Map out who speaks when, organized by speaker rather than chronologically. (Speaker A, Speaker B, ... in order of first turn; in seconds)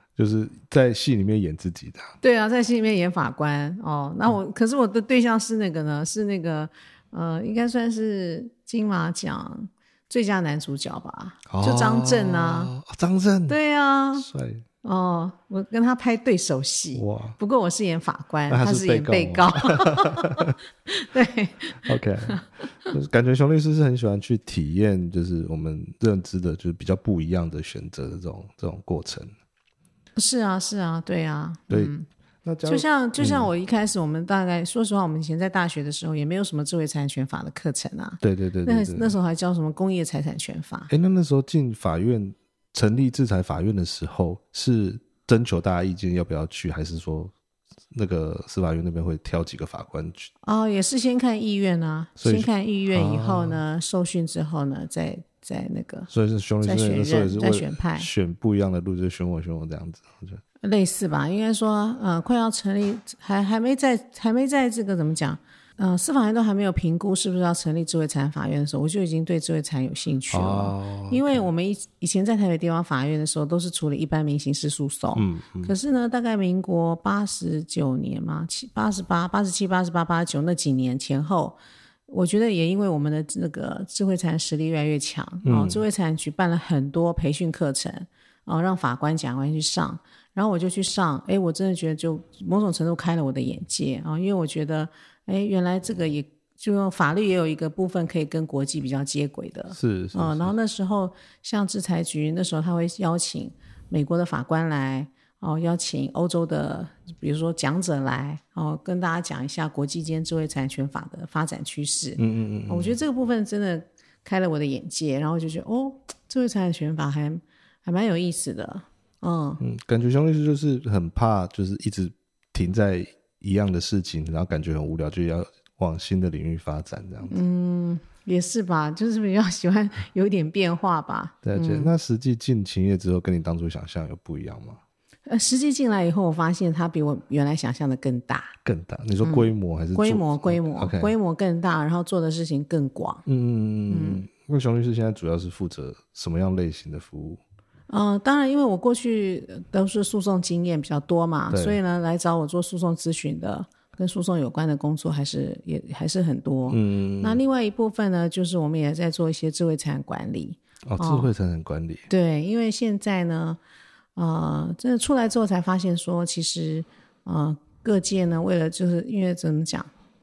Speaker A: 0.2-2.1, 11.5-13.6, 14.2-14.6, 16.9-17.4, 18.5-20.6, 21.9-29.3, 31.7-33.5, 38.2-39.2, 40.9-47.3, 47.9-50.3, 52.2-53.6, 56.1-60.4, 70.3-71.5, 75.1-75.8, 85.4-85.8, 99.7-100.5, 112.2-113.0, 119.6-127.4, 131.4-134.8, 138.6-141.1, 143.2-147.4, 151.5-151.8, 156.7-157.4, 160.9-162.1
Speaker B: 2.2-12.7, 13.5-14.3, 14.8-22.9, 30.2-32.1, 32.7-40.9, 50.4-56.1, 56.6-58.1, 60.6-119.6, 127.3-131.9, 135.3-138.6, 139.2-143.2, 143.9-144.2, 147.9-161.3, 162.1-163.6, 164.2-169.9